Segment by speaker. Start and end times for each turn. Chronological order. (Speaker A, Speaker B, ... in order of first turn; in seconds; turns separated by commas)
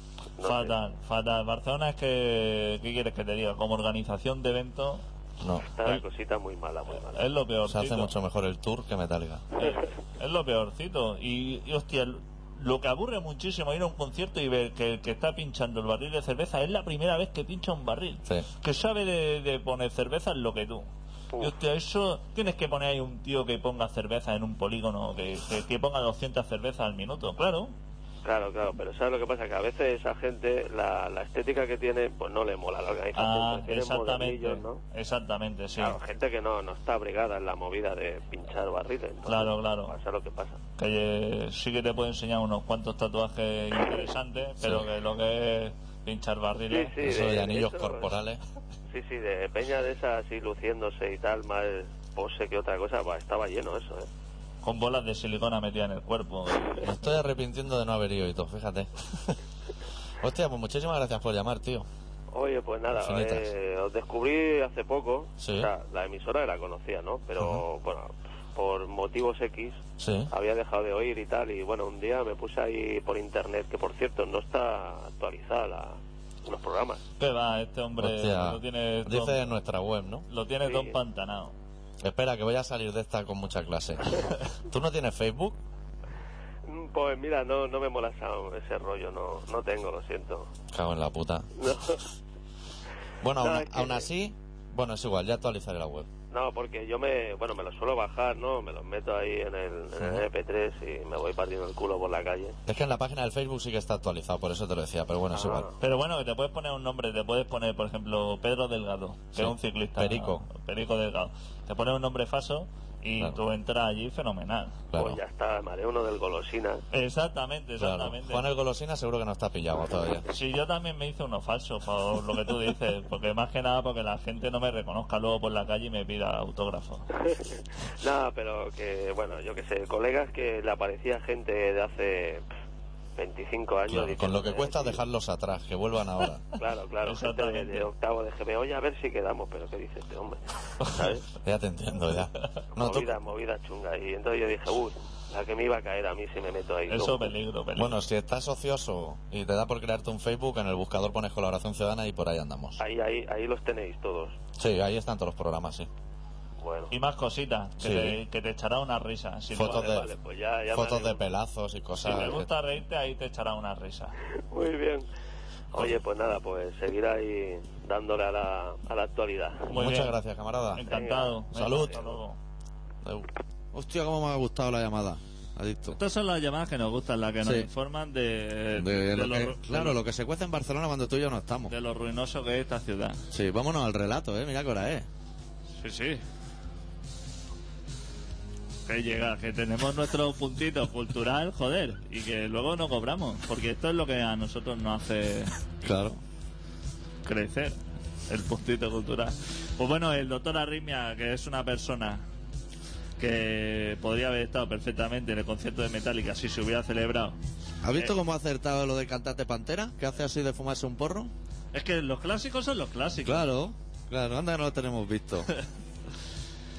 Speaker A: 0.4-0.7, Speaker B: 0.4-5.0, Speaker C: 5.4-5.7, Speaker A: 5.6-7.3, Speaker B: 7.1-8.1, Speaker C: 7.7-9.5, Speaker B: 9.6-27.7, Speaker A: 28.2-34.8, Speaker B: 33.1-36.0, Speaker A: 35.8-40.6, Speaker B: 39.3-40.0, Speaker B: 40.8-47.0, Speaker A: 46.7-48.1, Speaker C: 47.0-48.4, Speaker A: 48.9-54.1, Speaker B: 54.6-57.0, Speaker C: 56.7-59.4, Speaker C: 60.2-61.9, Speaker A: 62.3-77.0, Speaker C: 62.9-63.5, Speaker C: 65.4-65.7, Speaker C: 70.0-70.3, Speaker B: 77.2-79.5, Speaker C: 78.0-80.3, Speaker B: 80.3-81.6, Speaker A: 80.6-81.0, Speaker C: 82.0-85.6, Speaker A: 86.7-90.5, Speaker C: 90.7-91.5, Speaker A: 91.6-92.0, Speaker C: 93.2-96.1, Speaker A: 93.4-94.0, Speaker A: 96.3-102.6, Speaker C: 102.7-105.7, Speaker A: 105.3-105.8, Speaker B: 105.8-114.8, Speaker C: 109.3-110.4, Speaker C: 114.9-115.2, Speaker A: 115.0-116.8, Speaker B: 116.9-118.4, Speaker C: 117.8-120.3, Speaker B: 120.3-127.1, Speaker A: 127.2-132.4, Speaker A: 133.2-135.0, Speaker C: 133.9-136.4, Speaker A: 136.6-141.3, Speaker B: 137.0-137.9, Speaker C: 141.4-143.1, Speaker A: 142.7-147.3, Speaker B: 146.9-148.0, Speaker C: 147.8-152.8, Speaker A: 152.8-154.4, Speaker C: 154.6-155.9, Speaker A: 156.6-156.9, Speaker B: 156.9-159.9, Speaker C: 157.8-158.2, Speaker C: 159.6-160.1, Speaker A: 159.6-161.2, Speaker C: 160.7-162.5, Speaker B: 162.0-164.2, Speaker A: 164.5-165.1, Speaker A: 165.7-169.7, Speaker B: 169.7-170.2, Speaker C: 169.7-170.8, Speaker B: 170.7-172.4, Speaker A: 170.8-172.0, Speaker C: 171.5-172.0, Speaker C: 173.0-176.0, Speaker B: 175.9-180.0, Speaker C: 177.4-177.7, Speaker C: 178.8-181.7, Speaker B: 181.7-183.2, Speaker C: 183.3-185.1, Speaker B: 185.8-186.2, Speaker B: 188.9-195.5, Speaker C: 195.8-196.2, Speaker B: 197.2-197.8, Speaker B: 198.3-202.2, Speaker B: 203.2-207.4, Speaker C: 207.8-211.3, Speaker B: 211.7-213.5, Speaker C: 213.2-215.5